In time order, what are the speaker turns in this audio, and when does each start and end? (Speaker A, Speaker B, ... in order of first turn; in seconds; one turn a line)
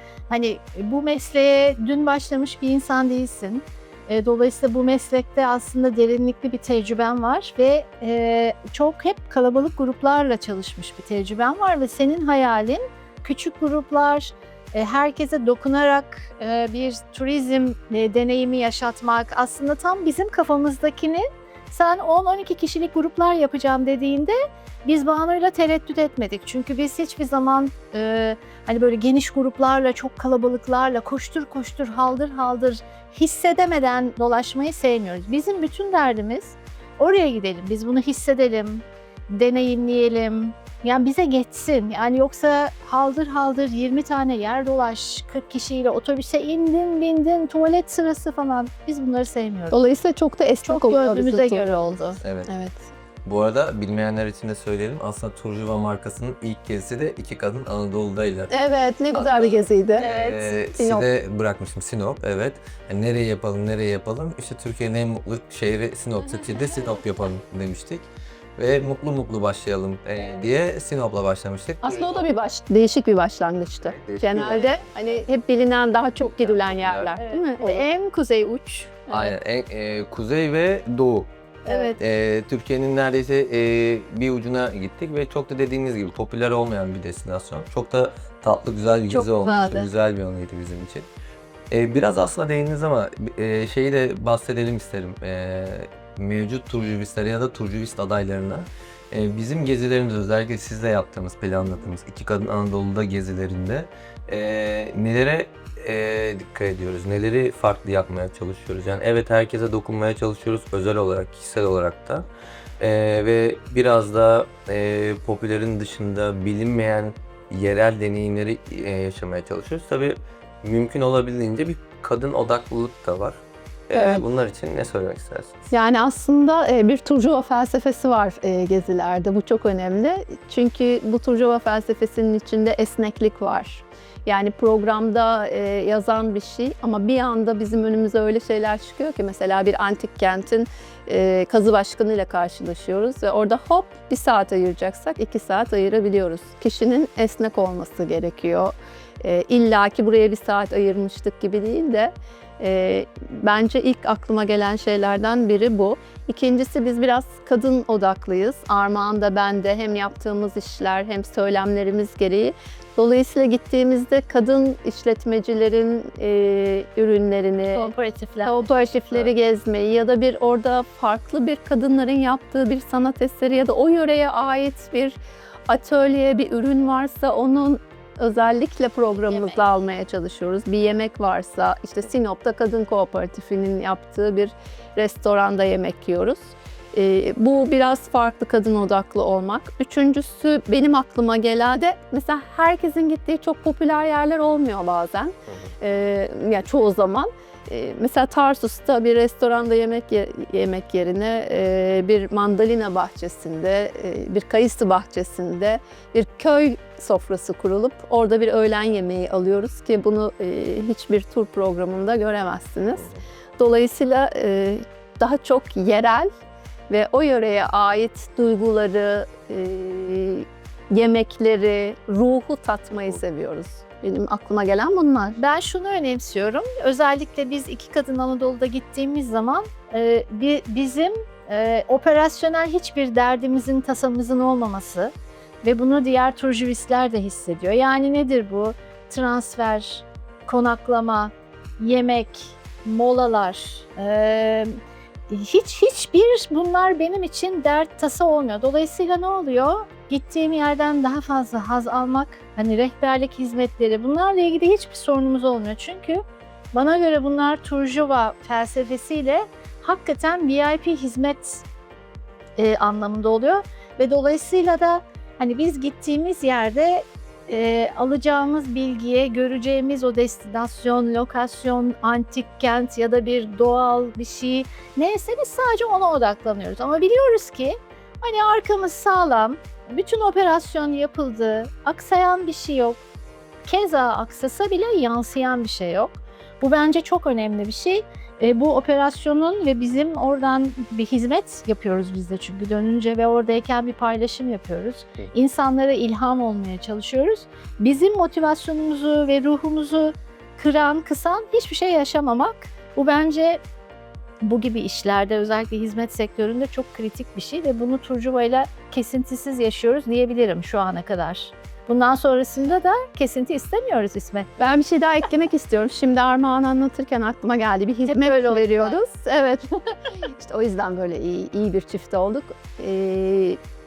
Speaker A: 0.3-49.8
Speaker B: 49.7-51.7
Speaker A: 50.6-52.2
Speaker C: 52.2-52.5
Speaker B: 52.5-52.9
Speaker C: 53.2-58.5
Speaker B: 58.5-61.1
Speaker C: 59.1-72.2
Speaker B: 71.8-77.9
Speaker C: 73.8-75.2
Speaker C: 76.2-77.1
Speaker A: 77.2-79.0
Speaker C: 79.1-81.3
Speaker A: 81.6-82.0
Speaker C: 82.0-91.1
Speaker A: 89.1-89.9
Speaker C: 91.7-112.3
Speaker C: 112.8-125.5
Speaker B: 123.9-124.2
Speaker B: 125.7-167.9
Speaker A: 167.6-168.7
Speaker B: 168.4-213.1
Speaker A: 179.1-179.8
Speaker C: 195.5-195.8
Speaker C: 212.9-213.2
Speaker B: 213.6-216.3
Speaker B: 216.9-225.4
Speaker C: 222.9-223.2
Speaker A: 225.4-244.8
Speaker A: 245.3-256.2
Speaker A: 256.7-261.6
Speaker A: 262.6-283.0
Speaker A: 283.6-303.6
Speaker A: 304.4-314.5
Speaker B: 314.6-319.7
Speaker A: 318.1-319.0
Speaker B: 320.2-323.6